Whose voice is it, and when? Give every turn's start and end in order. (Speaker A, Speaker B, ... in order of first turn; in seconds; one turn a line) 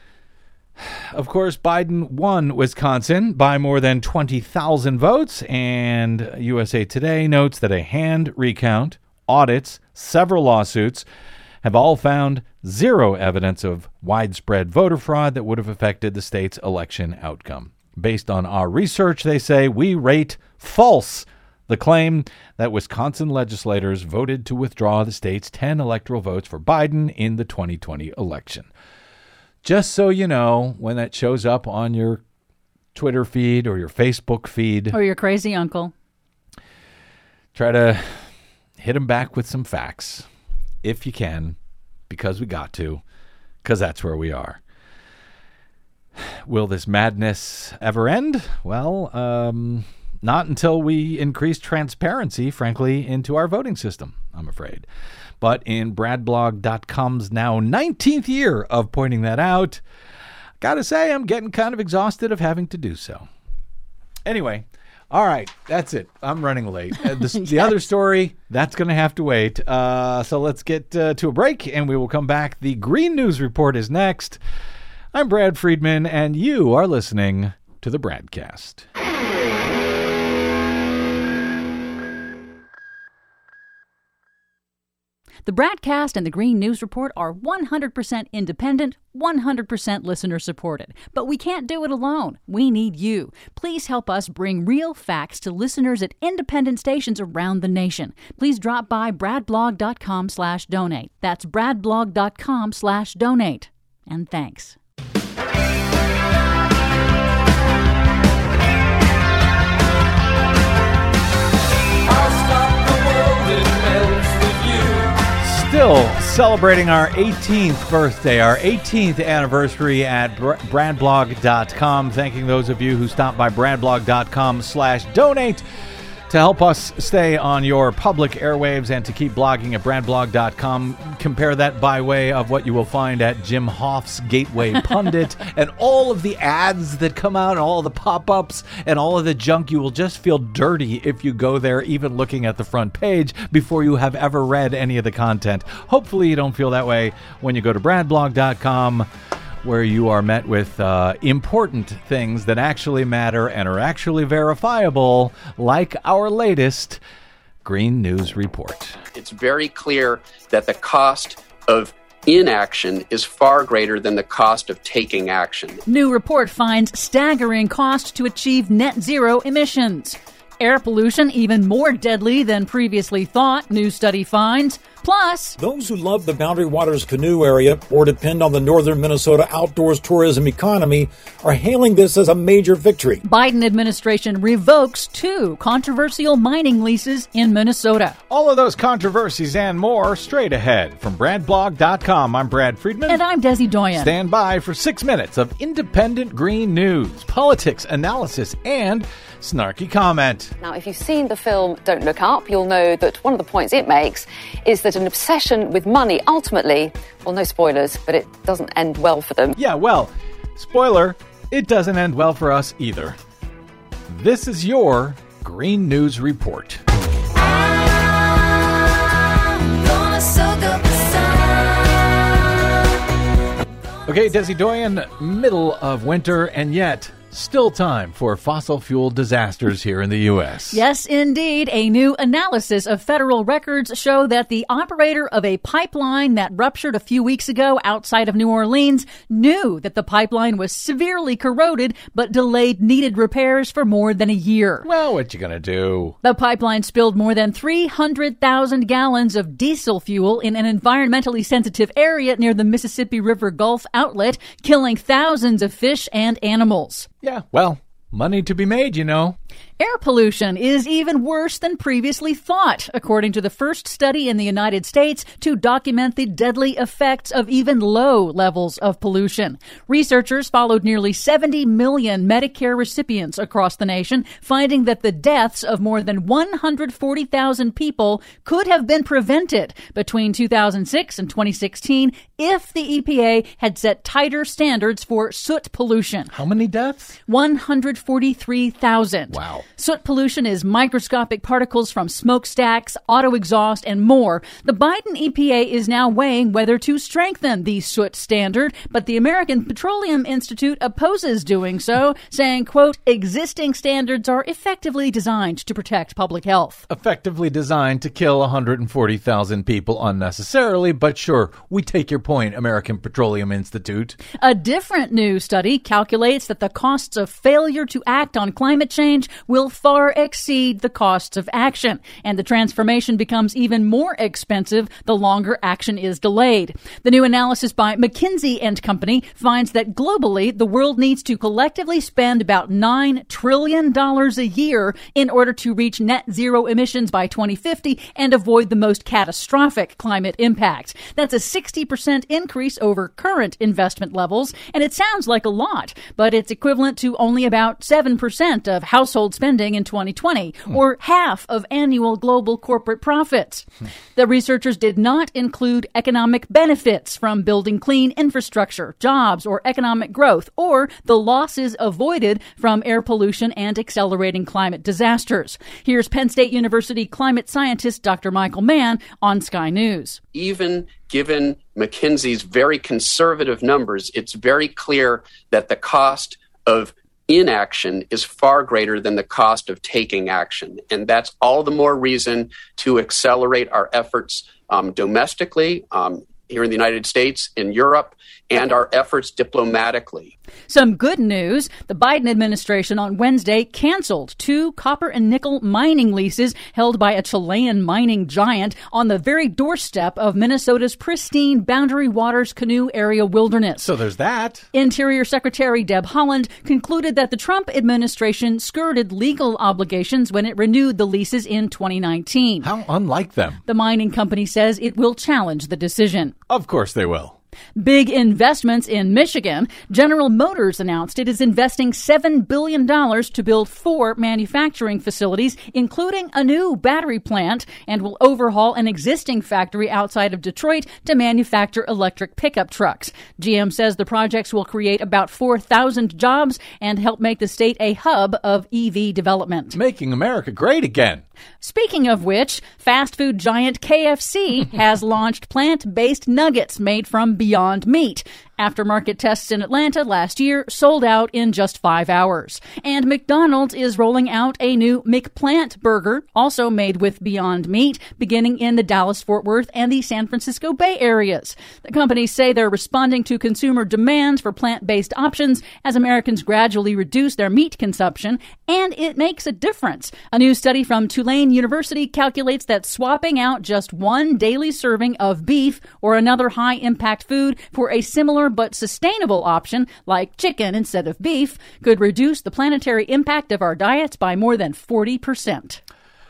Speaker A: 0.8-11.1
Speaker A: 11.6-28.7
Speaker A: 29.6-32.2
Speaker A: 32.9-35.0
Speaker B: 34.9-35.9
Speaker A: 37.5-38.2
Speaker A: 38.8-40.2
Speaker A: 40.8-41.6
Speaker A: 42.1-43.0
Speaker A: 43.6-44.6
Speaker A: 46.4-54.9
Speaker A: 55.4-59.8
Speaker A: 60.6-63.3
Speaker A: 64.2-74.4
Speaker A: 75.1-78.8
Speaker B: 85.4-104.8
Speaker C: 112.0-115.2
Speaker A: 115.3-125.6
Speaker A: 126.3-149.1
Speaker A: 149.6-157.0
Speaker A: 157.6-159.0
Speaker D: 159.1-165.8
Speaker B: 165.8-175.6
Speaker C: 175.6-183.2
Speaker B: 183.2-188.2
Speaker A: 188.3-193.2
Speaker B: 193.1-194.1
Speaker A: 193.9-200.5
Speaker E: 200.6-209.6
Speaker A: 209.6-213.2
Speaker A: 214.1-216.8
Speaker B: 217.7-218.1
Speaker B: 219.8-221.7
Speaker A: 224.1-230.8
Speaker B: 230.7-244.9
Speaker A: 244.8-246.2
Speaker B: 246.2-257.1
Speaker A: 257.2-259.4
Speaker B: 259.8-286.3
Speaker A: 286.3-287.2
Speaker B: 287.3-306.8
Speaker A: 289.3-289.6
Speaker A: 306.9-314.2
Speaker B: 314.4-370.2
Speaker D: 370.3-390.3
Speaker B: 390.7-403.9
Speaker A: 403.8-404.7
Speaker B: 404.7-412.7
Speaker A: 412.6-413.6
Speaker B: 413.7-416.3
Speaker A: 416.5-417.4
Speaker B: 417.8-439.8
Speaker A: 439.7-441.2
Speaker B: 441.6-485.8